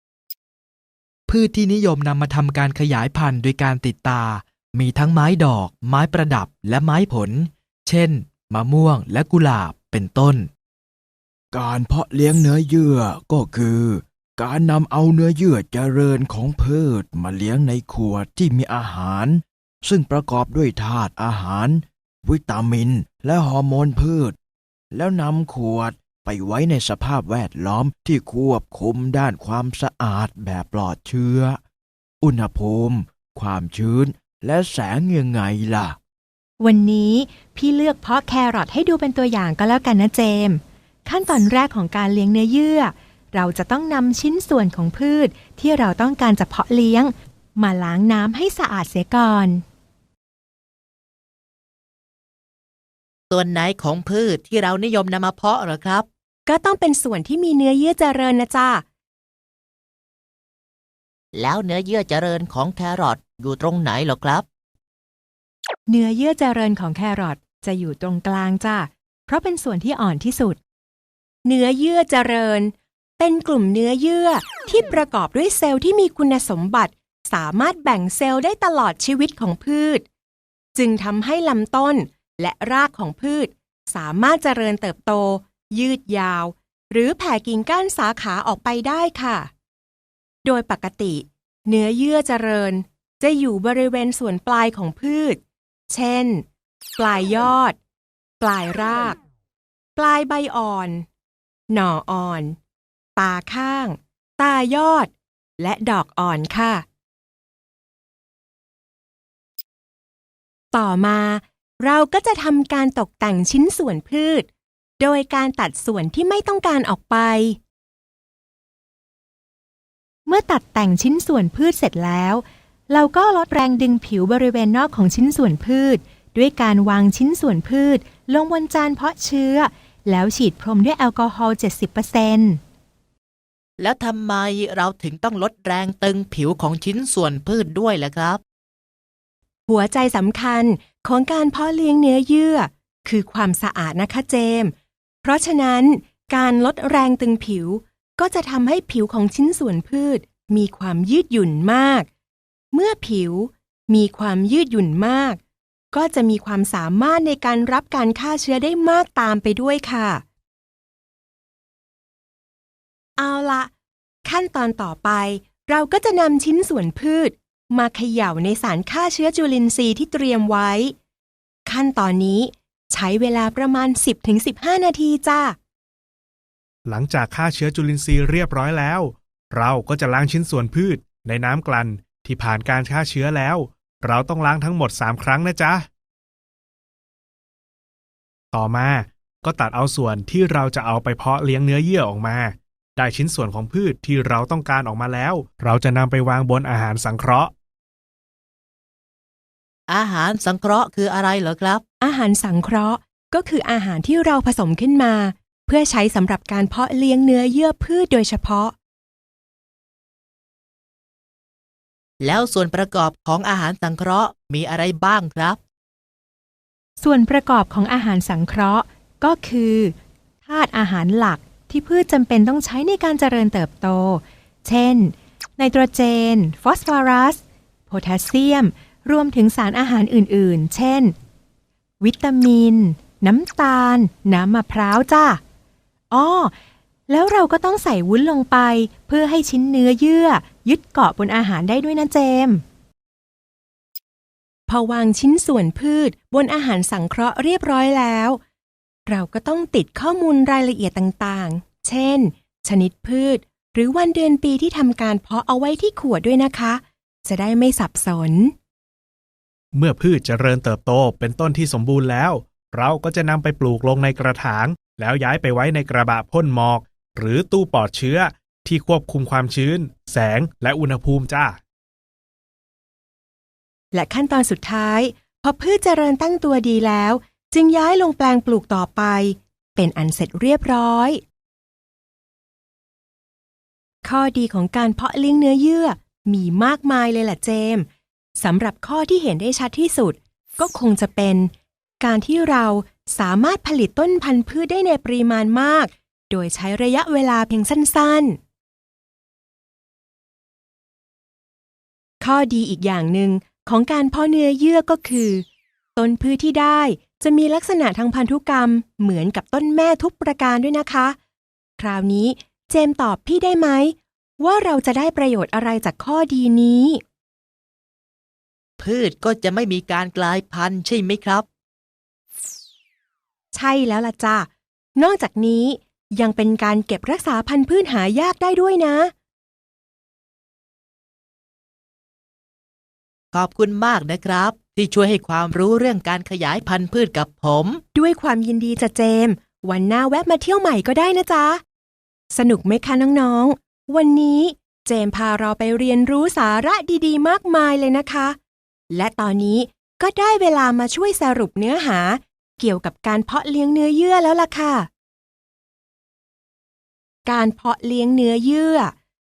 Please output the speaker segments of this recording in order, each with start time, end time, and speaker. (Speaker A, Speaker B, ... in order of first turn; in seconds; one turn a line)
Speaker A: 1.3-10.5
Speaker B: 11.5-24.4
Speaker B: 24.9-31.6
Speaker B: 32.2-36.0
Speaker C: 36.6-49.6
Speaker D: 53.3-56.1
Speaker C: 56.5-58.9
Speaker D: 61.3-64.5
Speaker C: 65.9-70.6
Speaker C: 71.5-80.1
Speaker C: 80.8-89.5
Speaker C: 90.5-96.5
Speaker C: 97.0-97.8
Speaker C: 98.4-99.2
Speaker C: 100.0-101.1
Speaker C: 101.7-102.6
Speaker C: 103.2-106.8
Speaker C: 110.7-114.5
Speaker C: 115.0-117.6
Speaker C: 120.3-132.6
Speaker D: 133.8-138.4
Speaker C: 139.7-152.1
Speaker C: 152.7-155.4
Speaker C: 155.9-160.2
Speaker C: 163.2-163.7
Speaker C: 164.2-170.9
Speaker C: 171.7-175.6
Speaker E: 176.9-185.9
Speaker E: 188.5-197.5
Speaker D: 199.9-201.8
Speaker C: 202.0-208.8
Speaker D: 212.2-215.6
Speaker C: 217.0-219.9
Speaker C: 220.5-231.2
Speaker C: 232.0-235.4
Speaker C: 236.1-236.5
Speaker C: 237.1-242.6
Speaker C: 244.7-248.4
Speaker C: 249.1-258.5
Speaker E: 259.7-271.6
Speaker C: 273.9-281.2
Speaker C: 284.0-287.9
Speaker C: 288.4-298.4
Speaker C: 302.2-305.4
Speaker C: 306.0-311.2
Speaker C: 311.8-317.0
Speaker D: 318.8-321.4
Speaker C: 323.5-329.1
Speaker D: 333.3-337.8
Speaker C: 337.9-341.6
Speaker C: 342.3-348.4
Speaker C: 348.9-354.9
Speaker C: 357.3-358.9